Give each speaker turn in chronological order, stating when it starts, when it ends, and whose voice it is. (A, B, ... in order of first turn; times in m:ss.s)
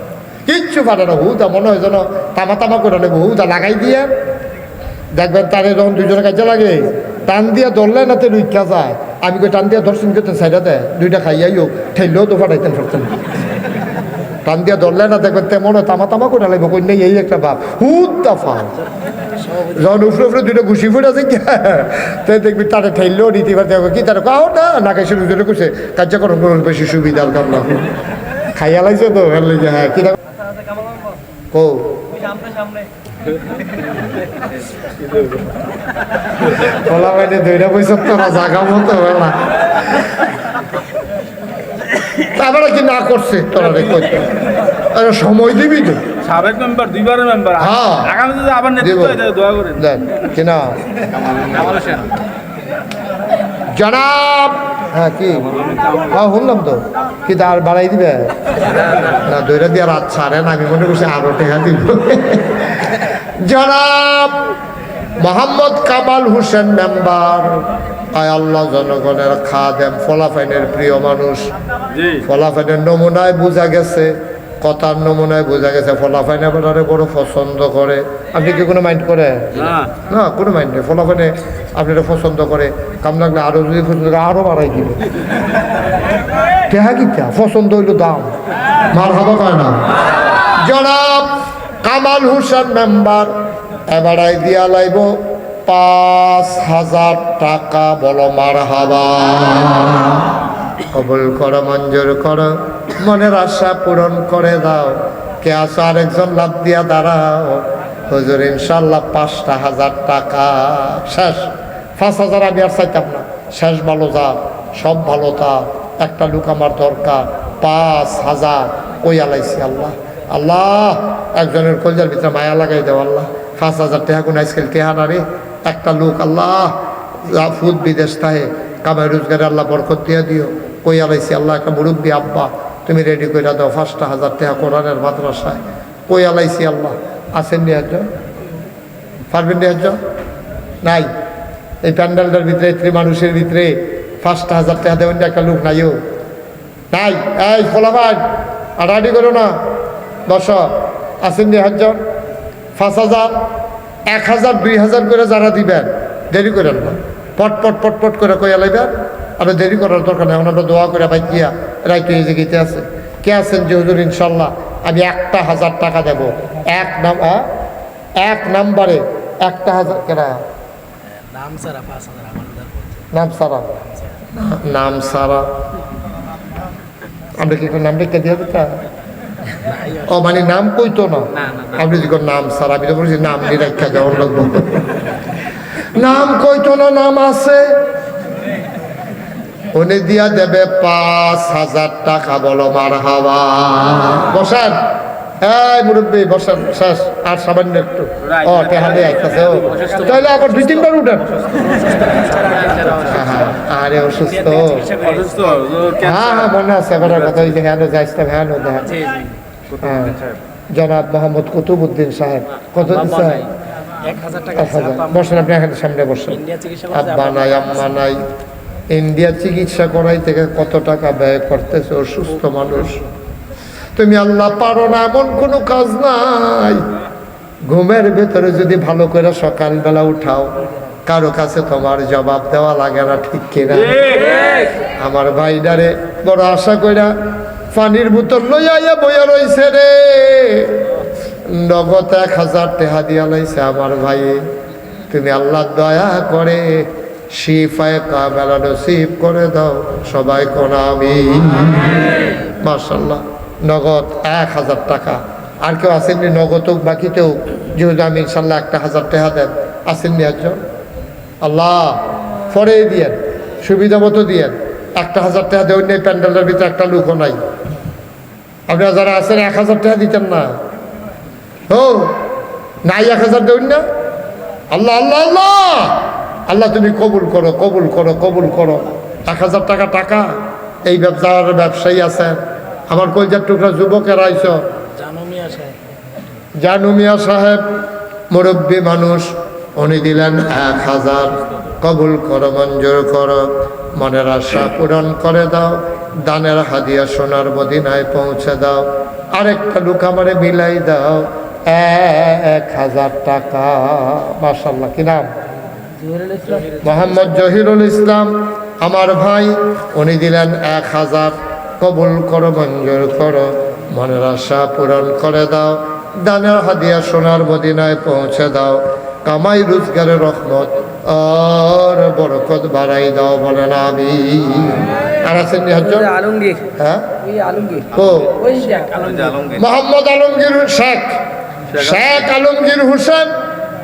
0:00.4-0:04.1 A
0:05.1-0:13.2 A
0:14.5-0:18.8 A
0:19.7-0:27.9 A
0:28.6-0:30.2 A
0:31.5-0:32.0 A
0:36.6-0:40.0 A
0:42.2-0:46.1 A
0:46.2-0:49.8 B
0:47.6-0:48.2 A
0:48.8-0:50.8 A
0:53.7-0:58.3 A
0:59.2-1:04.4 A
1:05.2-1:11.5 A
1:11.9-1:12.2 B
1:12.2-1:25.0 A
1:19.6-1:19.9 B
1:26.7-1:28.3 A
1:28.9-1:29.9 A
1:30.6-1:33.3 A
1:33.9-2:18.1 A
2:19.3-2:20.0 A
2:20.8-2:21.1 A
2:21.8-2:26.0 A
2:26.9-2:28.2 A
2:28.8-2:29.6 A
2:30.3-2:32.0 A
2:32.8-2:33.4 A
2:34.1-2:47.5 A
2:48.2-2:50.4 A
2:51.2-2:53.0 C
2:53.1-2:53.7 A
2:54.3-2:55.5 A
2:57.4-2:58.8 A
2:59.6-3:00.0 C
3:00.0-3:05.0 A
3:05.8-3:07.8 A
3:09.7-3:14.8 A
3:15.4-3:21.4 A
3:18.4-3:19.0 B
3:21.6-3:23.0 C
3:22.9-3:24.9 A
3:24.4-3:25.6 C
3:25.0-3:26.5 B
3:26.0-3:29.0 A
3:29.0-3:29.2 C
3:29.8-3:30.2 A
3:30.7-3:33.5 A
3:34.0-3:35.2 C
3:34.5-3:38.2 A
3:36.4-3:37.7 C
3:38.9-3:43.0 A
3:44.0-3:46.9 A
3:47.7-3:50.5 A
3:51.0-3:57.1 A
3:57.7-4:00.8 A
4:01.5-4:04.4 A
4:05.1-4:20.6 A
4:21.4-4:27.4 A
4:28.7-4:30.5 A
4:31.7-4:32.2 A
4:32.8-4:33.8 A
4:34.7-4:40.3 A
4:40.9-4:44.6 A
4:45.0-4:45.8 C
4:46.6-4:47.6 A
4:48.3-5:05.3 A
5:06.0-5:06.8 C
5:06.6-5:27.1 A
5:26.3-5:26.6 C
5:27.2-5:27.8 C
5:27.9-5:28.4 A
5:28.4-5:29.3 C
5:28.9-5:29.5 B
5:29.5-5:31.1 A
5:31.7-5:33.4 A